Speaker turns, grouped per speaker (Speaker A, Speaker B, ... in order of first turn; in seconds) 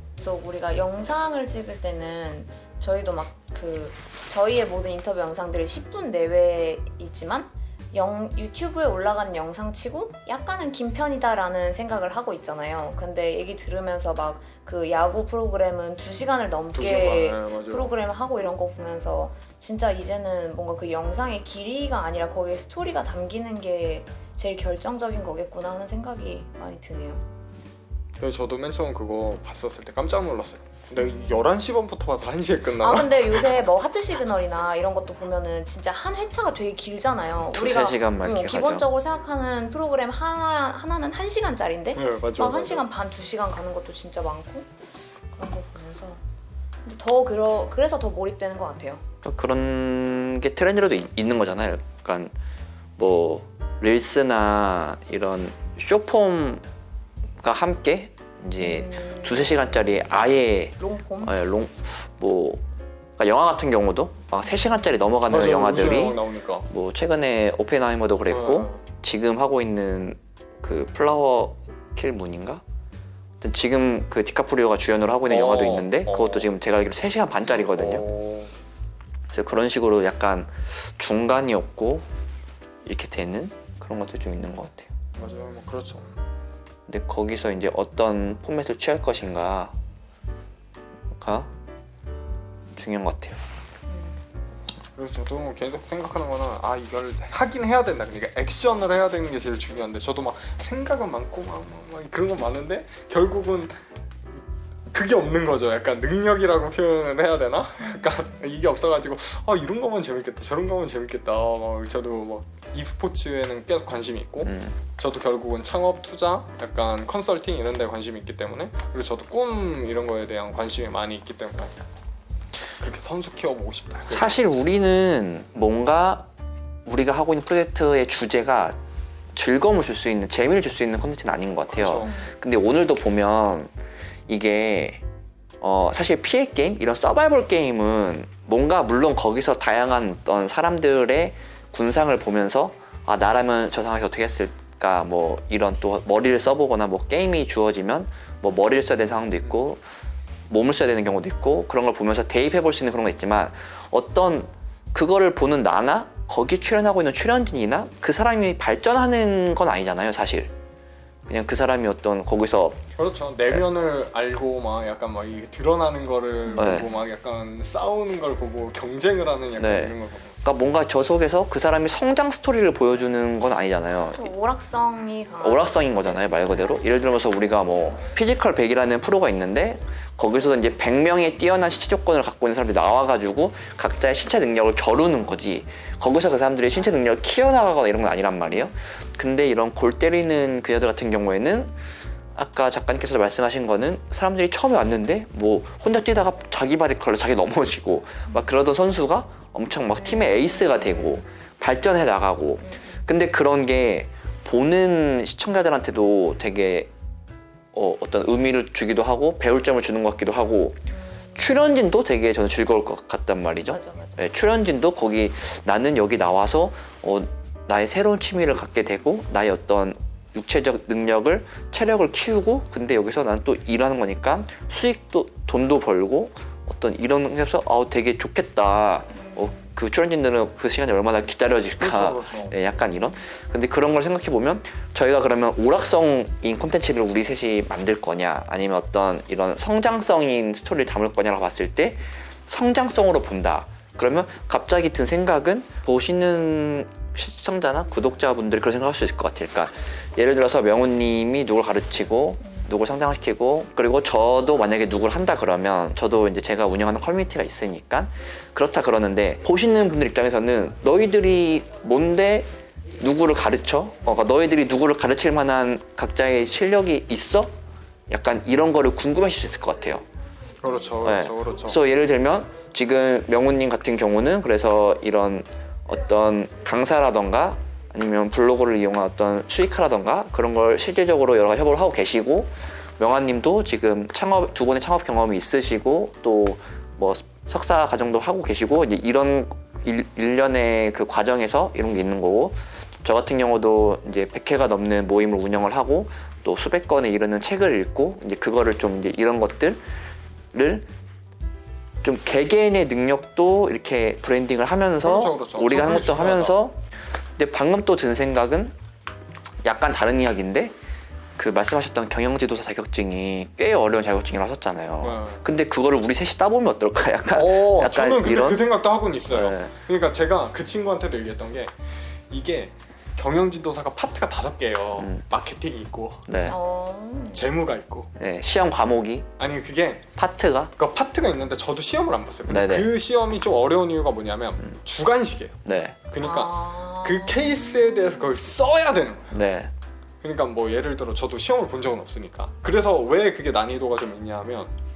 Speaker A: 0.2-27.2, 31.0-31.5, 32.8-44.7, 45.4-46.2, 46.8-49.0, 58.6-60.1, 60.8-61.3, 85.2-85.8, 93.9-94.2, 107.8-108.5, 132.0-132.3, 166.5-166.8, 174.1-176.6, 200.0-201.2, 202.6-203.0, 210.9-211.6, 213.7-214.2, 229.2-229.7, 326.5-327.5, 336.2-338.2
Speaker B: 16.7-17.9, 28.2-33.6, 41.9-42.8, 65.3-66.7, 68.3-68.8, 75.3-76.5, 77.4-78.5, 85.2-86.1, 95.0-103.8, 104.9-121.7, 122.8-124.3, 131.7-132.1, 163.0-170.4, 231.8-232.6, 270.6-271.8, 305.0-306.6, 315.0-315.4, 317.3-326.3, 327.3-328.1, 329.4-330.1, 330.8-339.4, 340.2-344.7
Speaker C: 37.5-38.9, 49.2-52.3, 53.0-56.6, 57.4-62.6, 63.2-72.6, 73.4-78.0, 79.3-82.1, 82.8-84.9, 86.9-89.8, 91.1-91.5, 92.8-93.4, 114.4-114.8, 124.1-126.3, 126.8-128.8, 129.3-133.7, 134.3-135.0, 135.6-149.8, 150.5-160.5, 161.3-162.8, 166.5-166.9, 169.6-174.3, 175.4-191.8, 192.3-206.9, 207.7-267.5, 268.1-270.0, 271.0-299.8, 300.5-300.9, 302.0-308.7, 309.6-310.7, 311.4-318.7, 319.3-319.7, 326.3-326.6, 328.1-329.3, 330.1-330.7, 332.5-332.9, 335.6-336.0, 339.3-339.7